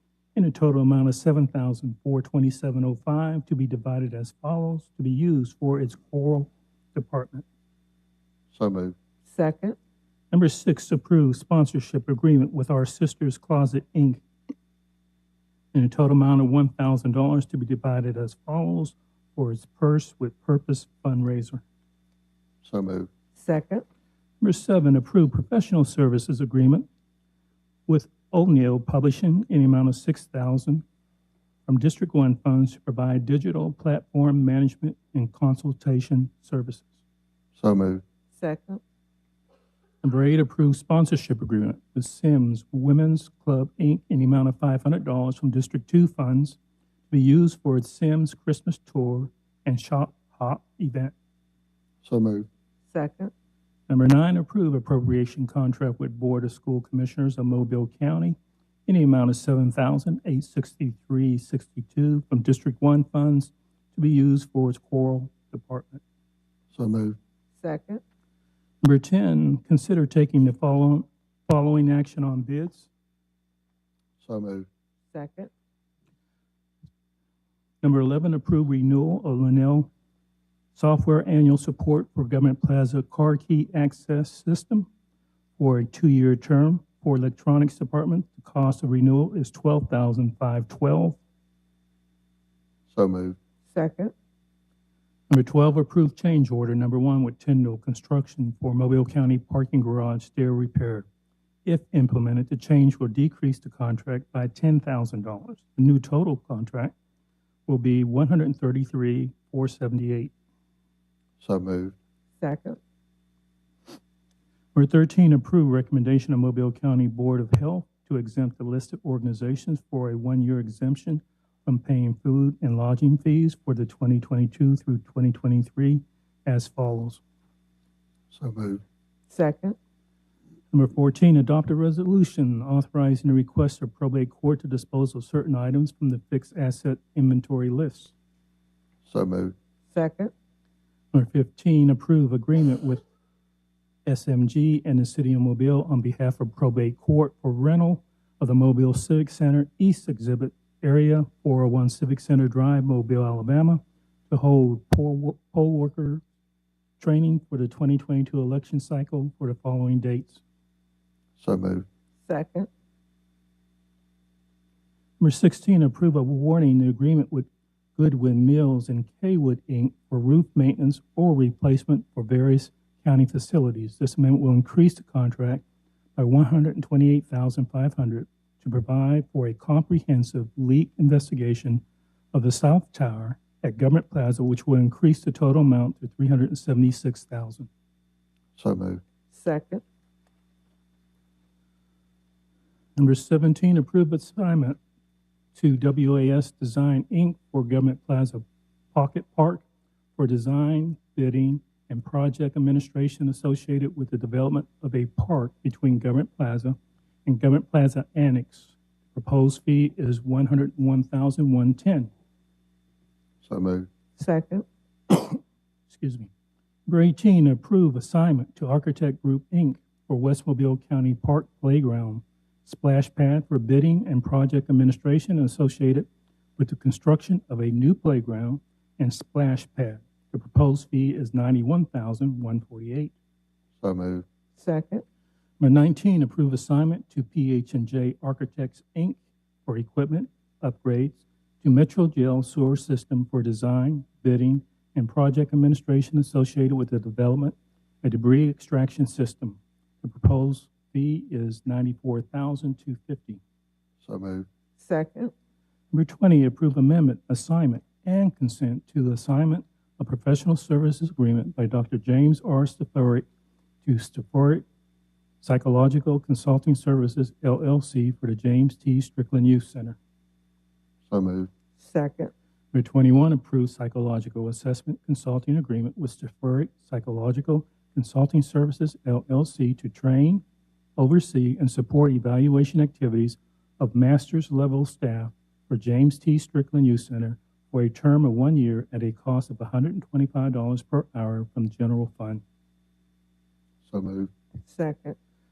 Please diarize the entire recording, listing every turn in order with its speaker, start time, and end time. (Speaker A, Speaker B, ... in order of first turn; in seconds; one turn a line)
Speaker A: 0.3-7.4
Speaker B: 8.5-8.9
Speaker C: 9.3-9.8
Speaker A: 10.3-14.2
Speaker A: 15.7-21.6
Speaker B: 22.6-23.1
Speaker C: 23.4-23.8
Speaker A: 24.4-26.9
Speaker A: 27.9-30.8
Speaker A: 31.6-36.9
Speaker B: 37.6-38.0
Speaker C: 38.4-38.8
Speaker A: 40.0-46.6
Speaker A: 47.1-51.1
Speaker B: 52.0-52.5
Speaker C: 52.9-53.3
Speaker A: 53.9-66.0
Speaker B: 66.7-67.2
Speaker C: 67.6-68.0
Speaker A: 68.8-72.9
Speaker B: 74.2-74.7
Speaker C: 75.1-75.5
Speaker A: 77.8-79.9
Speaker A: 80.7-84.9
Speaker A: 85.6-91.2
Speaker B: 92.9-93.4
Speaker C: 93.7-94.1
Speaker A: 95.3-101.1
Speaker A: 101.6-106.9
Speaker A: 107.7-110.3
Speaker B: 111.4-112.0
Speaker C: 112.4-112.8
Speaker A: 114.7-127.2
Speaker B: 128.3-128.8
Speaker C: 129.3-129.8
Speaker A: 130.7-138.1
Speaker B: 139.1-139.5
Speaker C: 139.9-140.3
Speaker A: 141.1-143.0
Speaker A: 144.0-156.2
Speaker A: 157.0-160.4
Speaker B: 161.4-161.8
Speaker C: 162.3-162.7
Speaker A: 165.2-175.6
Speaker A: 176.2-187.7
Speaker B: 188.6-189.0
Speaker C: 189.3-189.8
Speaker A: 192.9-194.8
Speaker A: 195.5-199.6
Speaker A: 200.2-212.1
Speaker B: 213.4-213.9
Speaker C: 214.2-214.6
Speaker A: 215.1-216.3
Speaker A: 216.8-233.1
Speaker B: 233.8-234.2
Speaker C: 234.6-235.0
Speaker A: 235.6-253.4
Speaker B: 254.0-254.5
Speaker C: 254.8-255.3
Speaker A: 255.9-263.2
Speaker A: 263.8-264.6
Speaker A: 265.4-270.0
Speaker B: 271.1-271.5
Speaker C: 271.8-272.3
Speaker A: 272.7-280.4
Speaker A: 281.0-292.4
Speaker B: 293.9-294.3
Speaker C: 294.6-295.1